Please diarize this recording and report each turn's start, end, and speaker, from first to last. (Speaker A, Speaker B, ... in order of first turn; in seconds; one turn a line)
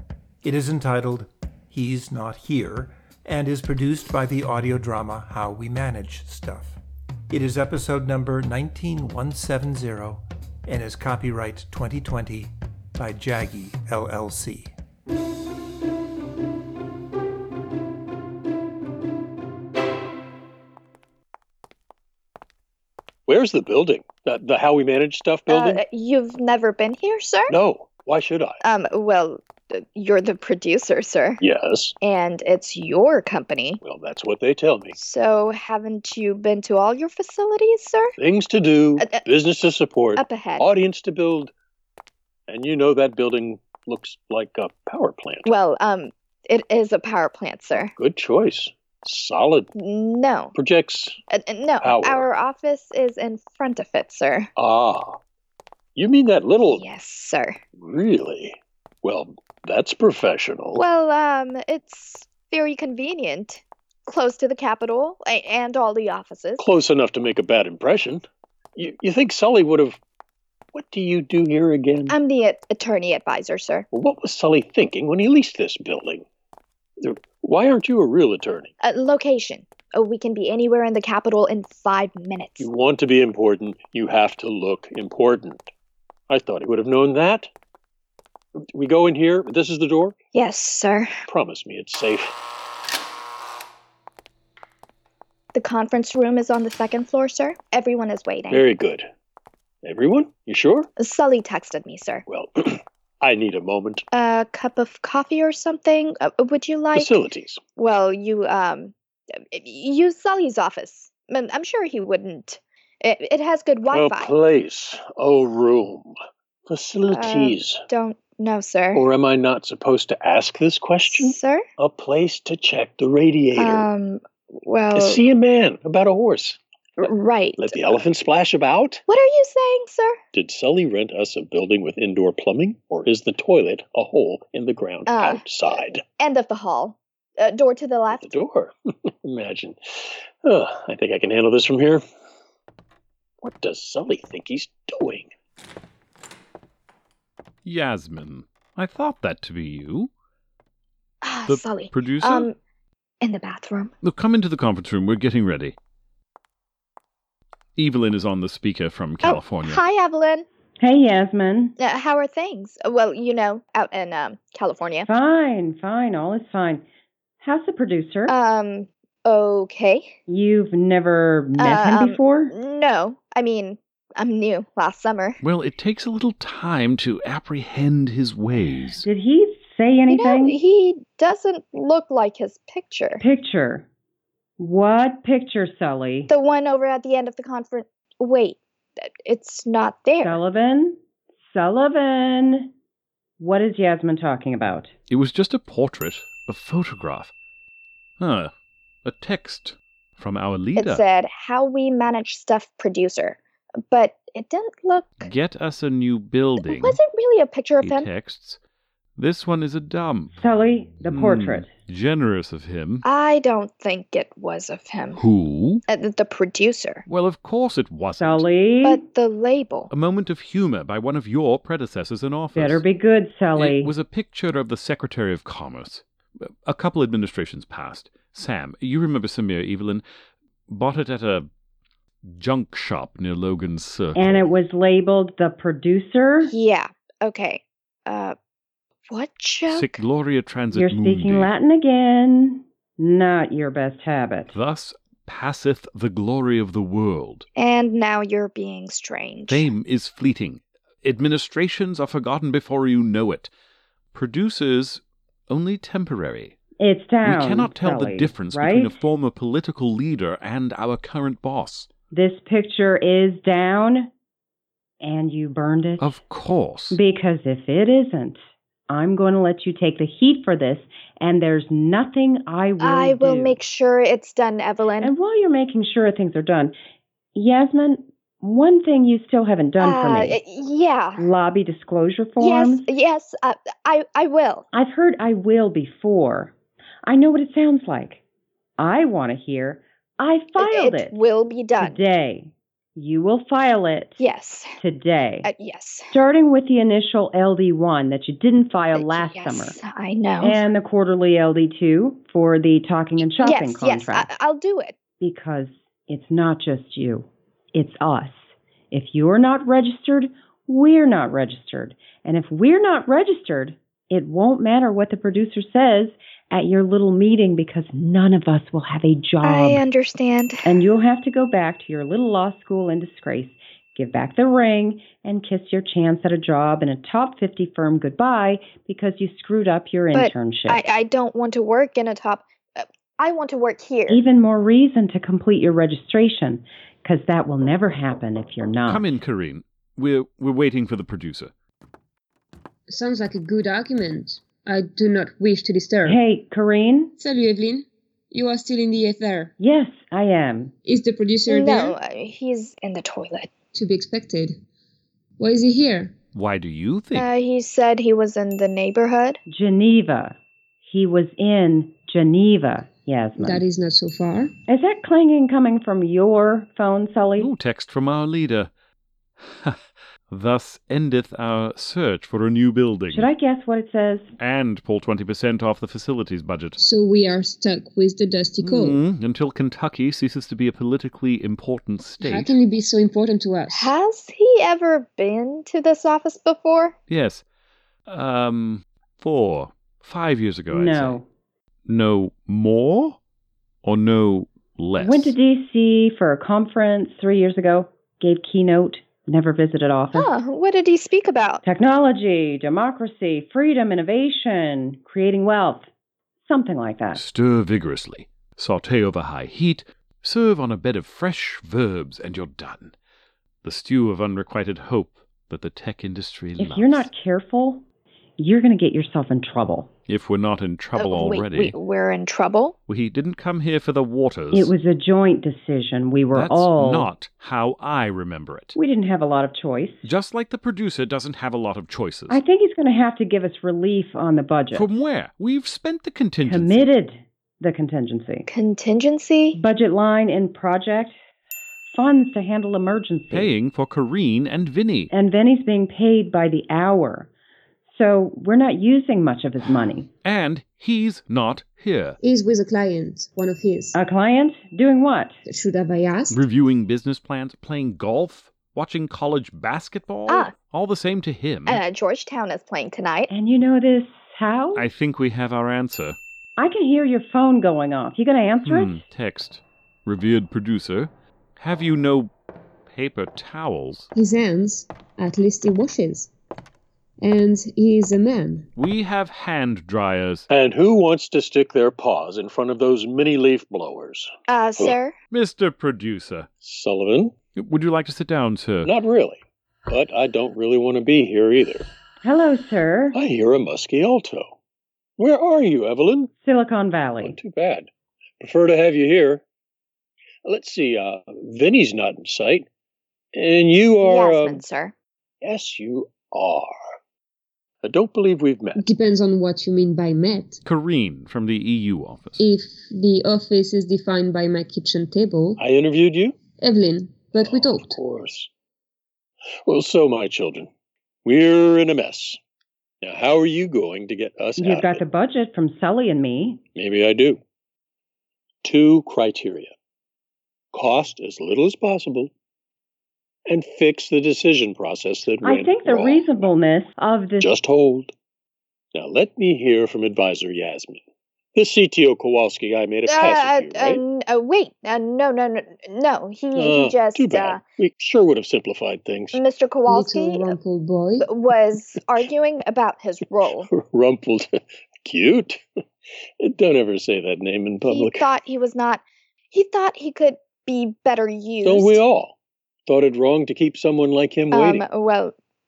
Speaker A: 0.4-14.7
Speaker B: 23.3-25.8
Speaker C: 25.5-27.5
Speaker B: 27.5-28.6
Speaker C: 28.6-31.4
Speaker B: 31.4-31.9
Speaker C: 32.0-33.8
Speaker B: 33.8-35.0
Speaker C: 35.0-38.1
Speaker B: 38.2-41.5
Speaker C: 39.0-39.2
Speaker C: 40.1-40.7
Speaker B: 42.5-45.5
Speaker C: 45.4-47.9
Speaker B: 48.0-49.7
Speaker C: 49.7-50.5
Speaker B: 50.5-51.2
Speaker C: 51.3-54.5
Speaker B: 51.8-52.3
Speaker B: 54.6-55.2
Speaker B: 56.0-56.8
Speaker C: 56.7-57.6
Speaker B: 57.8-60.8
Speaker C: 60.8-66.6
Speaker B: 66.6-68.2
Speaker B: 68.8-70.0
Speaker B: 70.7-72.2
Speaker C: 72.1-73.9
Speaker B: 73.9-76.2
Speaker B: 77.0-78.7
Speaker C: 78.8-82.7
Speaker B: 82.6-85.7
Speaker B: 86.3-87.5
Speaker B: 88.7-90.2
Speaker C: 90.3-91.1
Speaker B: 91.3-92.3
Speaker C: 95.5-98.6
Speaker B: 98.5-99.0
Speaker B: 99.8-100.9
Speaker C: 101.0-102.2
Speaker B: 102.3-104.0
Speaker C: 104.1-107.2
Speaker B: 106.9-107.6
Speaker C: 107.8-108.9
Speaker C: 109.5-114.3
Speaker B: 113.9-116.1
Speaker B: 116.7-117.8
Speaker C: 117.1-119.1
Speaker B: 118.9-123.9
Speaker C: 121.1-121.7
Speaker C: 123.5-125.2
Speaker B: 124.9-126.6
Speaker C: 127.0-128.0
Speaker B: 127.6-129.0
Speaker C: 129.1-130.2
Speaker B: 130.3-136.0
Speaker C: 135.1-135.4
Speaker C: 136.2-138.3
Speaker B: 138.1-138.7
Speaker B: 139.2-142.0
Speaker B: 143.4-145.3
Speaker D: 147.6-150.1
Speaker C: 151.2-152.6
Speaker D: 151.5-152.5
Speaker C: 153.2-153.9
Speaker D: 154.0-155.8
Speaker D: 157.8-159.8
Speaker C: 159.2-160.4
Speaker E: 160.8-161.7
Speaker C: 161.8-165.1
Speaker E: 165.1-166.8
Speaker E: 167.4-168.3
Speaker C: 168.3-170.2
Speaker E: 170.3-172.5
Speaker C: 171.6-175.4
Speaker D: 175.4-179.0
Speaker E: 179.0-180.6
Speaker C: 180.1-183.2
Speaker E: 183.2-183.8
Speaker E: 184.6-186.3
Speaker C: 186.3-190.4
Speaker E: 190.2-192.7
Speaker E: 193.4-194.9
Speaker D: 195.1-197.3
Speaker D: 198.2-198.5
Speaker D: 199.0-201.0
Speaker C: 200.8-205.3
Speaker D: 205.2-207.0
Speaker C: 206.6-208.1
Speaker D: 207.8-208.6
Speaker D: 209.2-210.3
Speaker E: 210.4-211.7
Speaker D: 211.1-213.0
Speaker C: 213.0-215.2
Speaker D: 215.2-215.8
Speaker C: 215.9-217.0
Speaker D: 217.1-218.5
Speaker E: 218.2-219.0
Speaker C: 218.8-219.9
Speaker D: 219.9-222.8
Speaker E: 222.6-223.9
Speaker D: 223.5-230.0
Speaker D: 230.7-231.5
Speaker D: 232.2-234.4
Speaker E: 234.1-236.5
Speaker C: 236.4-238.3
Speaker C: 239.1-240.0
Speaker D: 239.7-241.5
Speaker E: 240.7-244.5
Speaker D: 244.5-247.4
Speaker C: 247.6-249.7
Speaker D: 249.5-253.5
Speaker D: 254.1-256.6
Speaker E: 256.8-259.0
Speaker D: 257.2-261.9
Speaker E: 262.1-264.1
Speaker E: 265.0-266.1
Speaker D: 266.0-267.0
Speaker E: 266.9-273.6
Speaker C: 272.8-275.1
Speaker E: 275.0-276.7
Speaker E: 277.3-280.4
Speaker C: 279.8-281.2
Speaker E: 281.2-282.9
Speaker C: 282.4-284.7
Speaker E: 284.7-286.5
Speaker E: 287.0-288.2
Speaker E: 288.8-291.1
Speaker C: 290.6-292.0
Speaker E: 291.8-294.2
Speaker C: 294.2-294.8
Speaker E: 294.8-295.5
Speaker C: 295.4-296.1
Speaker E: 296.1-299.8
Speaker C: 298.9-300.6
Speaker E: 300.4-304.3
Speaker C: 303.2-304.9
Speaker E: 305.2-319.8
Speaker C: 319.4-320.7
Speaker E: 320.6-330.8
Speaker C: 330.1-334.2
Speaker E: 334.1-339.1
Speaker D: 338.9-341.5
Speaker F: 342.9-346.2
Speaker E: 346.0-347.1
Speaker F: 347.2-349.5
Speaker E: 349.6-350.7
Speaker F: 350.8-352.0
Speaker C: 351.4-353.5
Speaker F: 353.7-354.6
Speaker F: 355.4-356.1
Speaker D: 356.3-357.3
Speaker C: 357.1-359.4
Speaker E: 359.5-363.6
Speaker F: 363.4-364.5
Speaker E: 364.7-367.5
Speaker D: 367.4-368.7
Speaker D: 369.4-373.3
Speaker E: 373.1-374.3
Speaker D: 374.4-376.8
Speaker F: 376.8-379.0
Speaker D: 378.6-382.6
Speaker F: 382.2-383.9
Speaker C: 383.7-386.9
Speaker D: 387.1-387.4
Speaker D: 388.1-391.2
Speaker E: 390.7-391.2
Speaker D: 391.9-393.2
Speaker D: 393.8-395.4
Speaker E: 395.0-400.3
Speaker C: 400.1-401.6
Speaker E: 401.6-405.9
Speaker E: 406.4-407.2
Speaker D: 407.1-412.9
Speaker D: 413.6-417.1
Speaker E: 416.6-417.8
Speaker E: 418.4-419.9
Speaker D: 420.1-421.8
Speaker C: 420.9-422.7
Speaker D: 422.9-424.7
Speaker E: 424.5-427.1
Speaker D: 426.3-428.7
Speaker E: 428.7-430.1
Speaker D: 430.0-432.4
Speaker E: 432.3-434.9
Speaker D: 434.7-436.9
Speaker E: 436.4-438.5
Speaker C: 438.5-439.6
Speaker E: 439.5-441.1
Speaker E: 441.9-443.5
Speaker D: 443.3-445.1
Speaker E: 445.1-447.3
Speaker E: 447.9-450.1
Speaker D: 450.2-452.2
Speaker F: 452.2-453.9
Speaker E: 453.9-455.3
Speaker F: 455.4-456.4
Speaker D: 456.3-461.8
Speaker C: 460.3-460.5
Speaker C: 461.6-463.3
Speaker E: 463.3-464.9
Speaker D: 464.7-466.2
Speaker E: 466.6-469.0
Speaker D: 468.6-472.3
Speaker D: 472.9-474.1
Speaker F: 474.1-476.3
Speaker F: 477.2-478.7
Speaker D: 478.8-480.5
Speaker B: 480.5-485.0
Speaker C: 484.5-485.1
Speaker D: 485.3-486.5
Speaker B: 486.6-487.4
Speaker D: 487.5-488.9
Speaker B: 488.8-491.9
Speaker E: 492.2-493.2
Speaker B: 493.1-494.5
Speaker B: 495.2-496.3
Speaker E: 496.4-497.4
Speaker B: 497.2-497.9
Speaker B: 498.4-499.4
Speaker B: 500.4-502.7
Speaker B: 503.3-504.6
Speaker C: 504.0-504.9
Speaker B: 505.4-506.8
Speaker B: 507.8-508.8
Speaker F: 508.8-510.6
Speaker D: 510.6-512.4
Speaker F: 512.4-515.6
Speaker B: 515.6-516.3
Speaker F: 516.5-518.0
Speaker B: 517.4-518.5
Speaker B: 519.6-520.7
Speaker B: 521.2-522.4
Speaker B: 523.0-525.0
Speaker E: 524.6-526.6
Speaker B: 526.7-527.4
Speaker B: 528.6-529.7
Speaker B: 530.7-532.3
Speaker B: 533.5-536.4
Speaker E: 535.4-537.5
Speaker B: 537.4-538.1
Speaker B: 538.9-541.0
Speaker B: 541.5-544.0
Speaker C: 543.0-547.6
Speaker B: 546.5-549.4
Speaker C: 549.3-550.6
Speaker F: 549.9-551.3
Speaker C: 551.2-553.7
Speaker B: 553.6-554.5
Speaker B: 555.0-555.6
Speaker B: 556.4-558.3
Speaker C: 557.8-562.0
Speaker B: 561.6-562.3
Speaker B: 562.9-564.9
Speaker C: 564.5-565.3